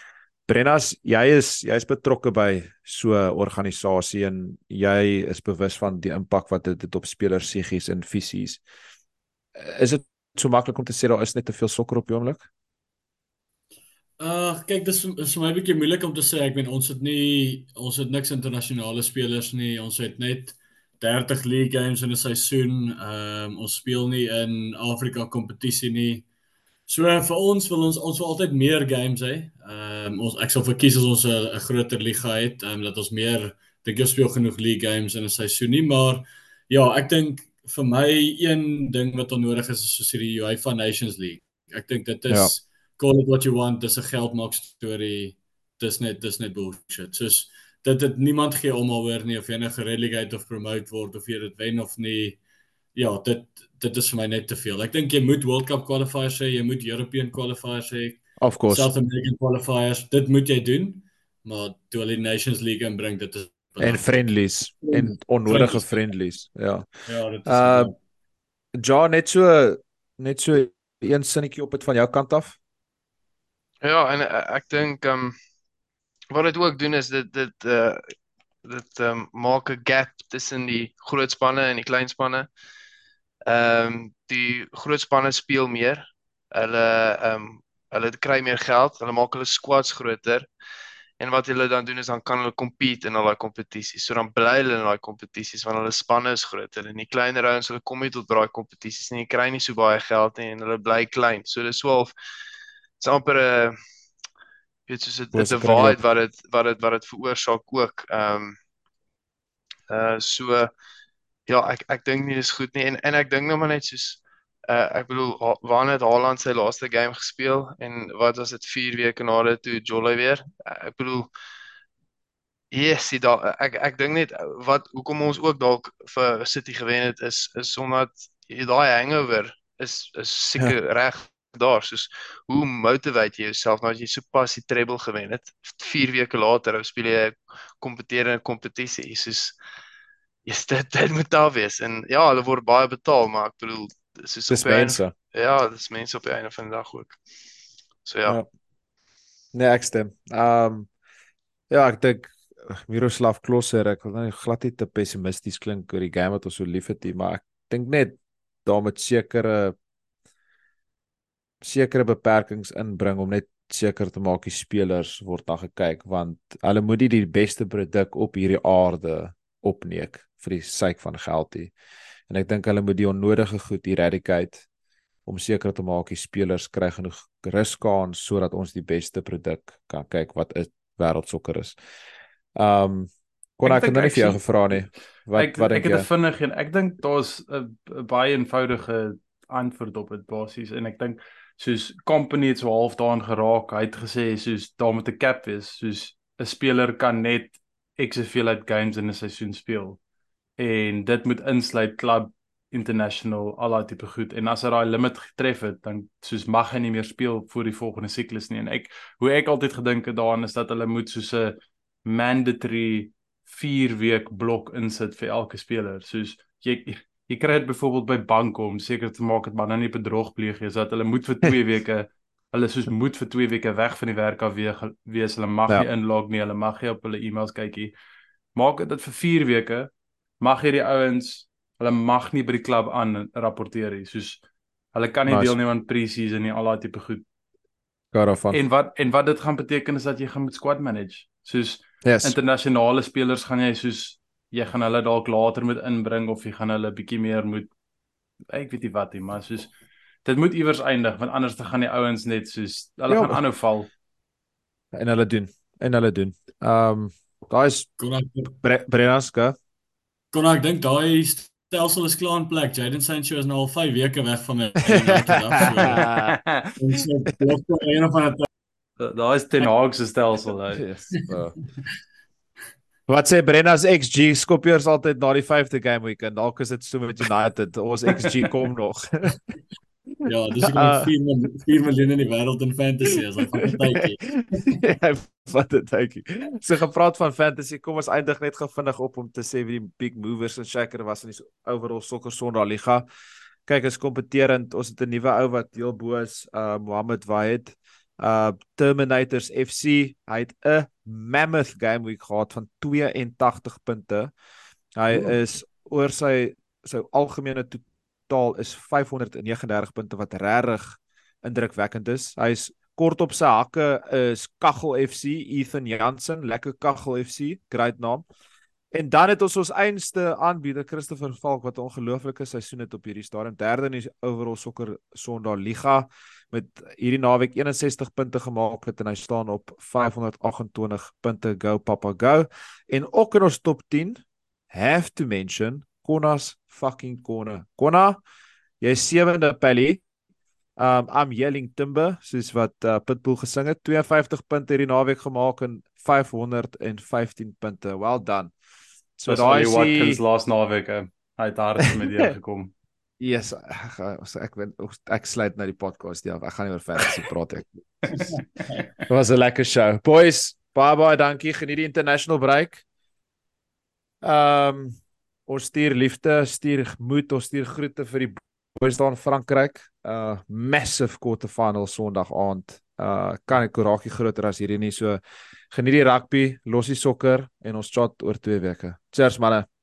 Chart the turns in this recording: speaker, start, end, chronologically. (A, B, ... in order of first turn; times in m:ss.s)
0:00.5-0:08.6 A
0:09.6-0:12.4 A
0:14.2-0:26.2 B
0:26.9-0:52.4 B
0:53.0-1:04.2 B
0:58.4-0:58.9 A
1:03.8-1:06.9 A
1:04.8-1:06.0 B
1:07.1-1:08.0 B
1:07.5-1:07.9 A
1:08.8-1:12.6 A
1:13.8-1:15.4 C
1:16.3-1:18.0 C
1:18.6-1:22.5 C
1:23.5-1:26.0 C
1:26.5-1:30.5 C
1:31.2-1:42.1 C
1:43.0-1:43.8 C
1:44.9-1:48.6 C
1:45.3-1:46.0 A
1:49.9-1:50.7 C
1:51.5-2:01.3 C
2:02.7-2:19.6 C
2:20.5-2:27.2 C
2:24.5-2:25.1 A
2:28.0-2:28.4 C
2:29.5-2:30.9 A
2:31.7-2:39.8 A
2:41.6-2:51.7 A
2:52.3-2:54.6 A
2:55.3-3:01.8 A
3:02.6-3:06.1 A
3:03.7-3:04.4 D
3:05.4-3:20.0 D
3:20.6-3:47.9 D
3:48.6-3:54.4 D
3:54.9-3:57.2 D
3:55.3-3:55.6 A
3:58.1-3:58.6 A
3:58.5-4:07.7 D
4:02.0-4:02.4 A
4:08.5-4:09.7 D
4:10.2-4:13.9 D
4:13.1-4:13.4 A
4:14.9-4:17.9 A
4:18.0-4:18.5 B
4:18.5-4:19.6 A
4:20.3-4:26.1 B
4:24.9-4:26.4 A
4:26.8-4:28.5 B
4:29.0-4:30.8 D
4:30.8-4:31.6 A
4:33.1-4:39.4 A
4:40.2-4:44.6 B
4:40.6-4:41.1 A
4:44.6-4:53.1 A
4:53.7-5:04.3 A
5:05.0-5:18.3 A
5:18.9-5:38.2 A
5:38.8-5:40.0 A
5:40.8-5:48.5 A
5:49.2-5:50.2 A
5:49.3-5:52.7 D
5:53.2-5:58.4 A
5:59.0-6:02.8 A
6:04.2-6:15.2 A
6:15.7-6:19.7 A